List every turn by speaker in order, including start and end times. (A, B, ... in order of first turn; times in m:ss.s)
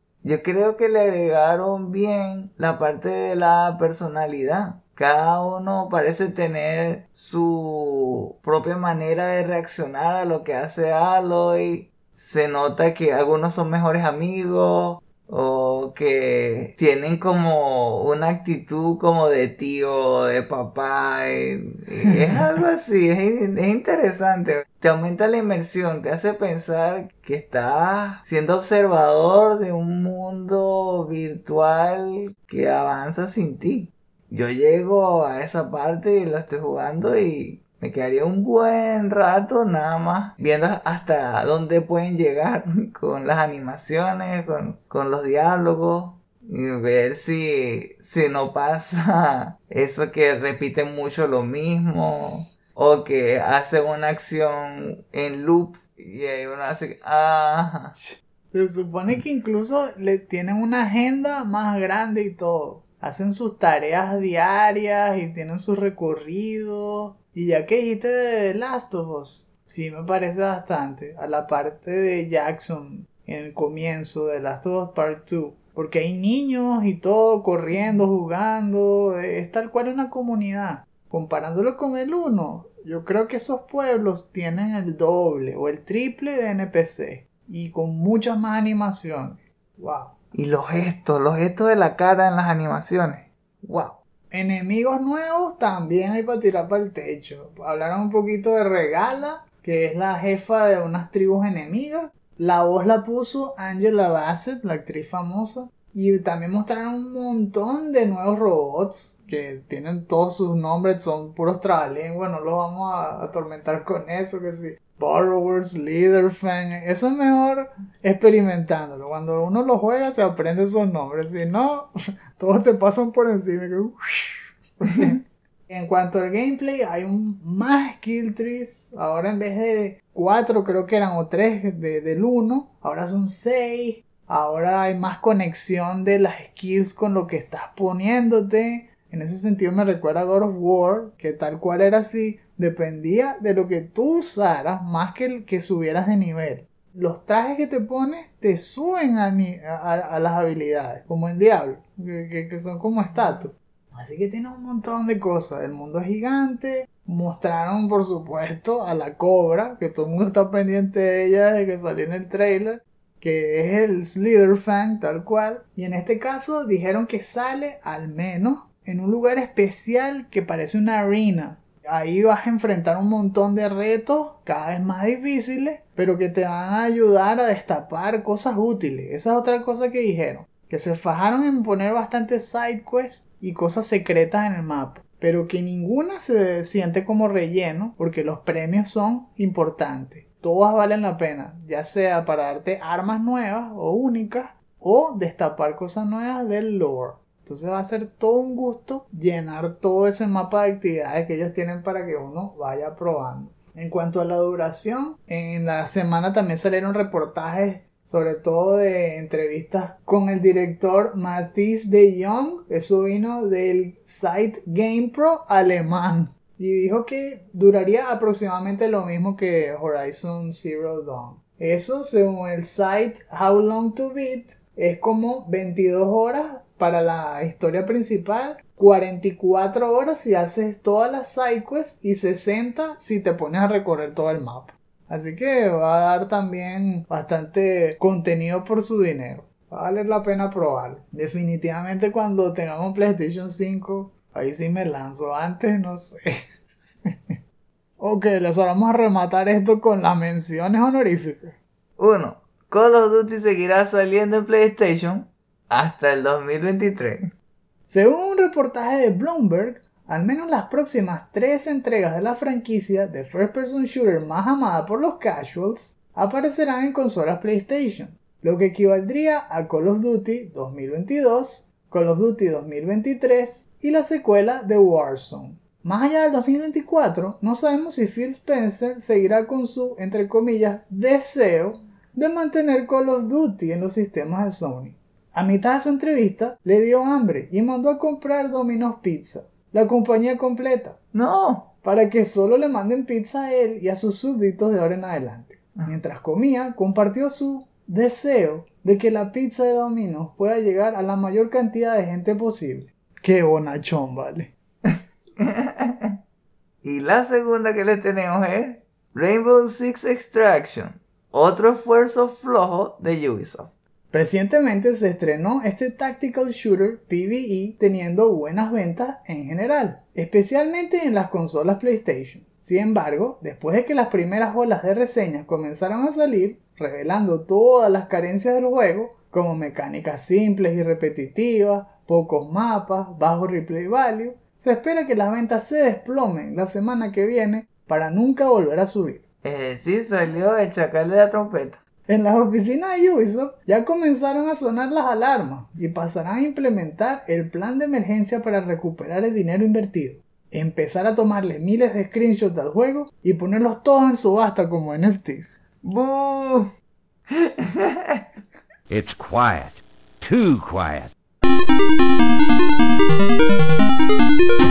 0:00.2-0:58.0 A
0:58.0-1:30.1 B
1:30.3-1:34.0 A
1:34.3-4:06.3 B
4:07.1-4:07.3 B
4:08.0-4:11.6 B
4:12.0-4:17.2 A
4:17.9-4:51.0 B
4:51.1-4:51.7 A
4:51.8-5:04.5 B
5:04.9-5:06.2 A
5:06.8-5:13.7 A
5:14.1-5:39.2 B
5:39.4-5:41.8 A
5:42.1-5:55.6 B
5:55.8-5:56.7 A
5:57.3-5:58.2 A
5:58.9-6:01.1 C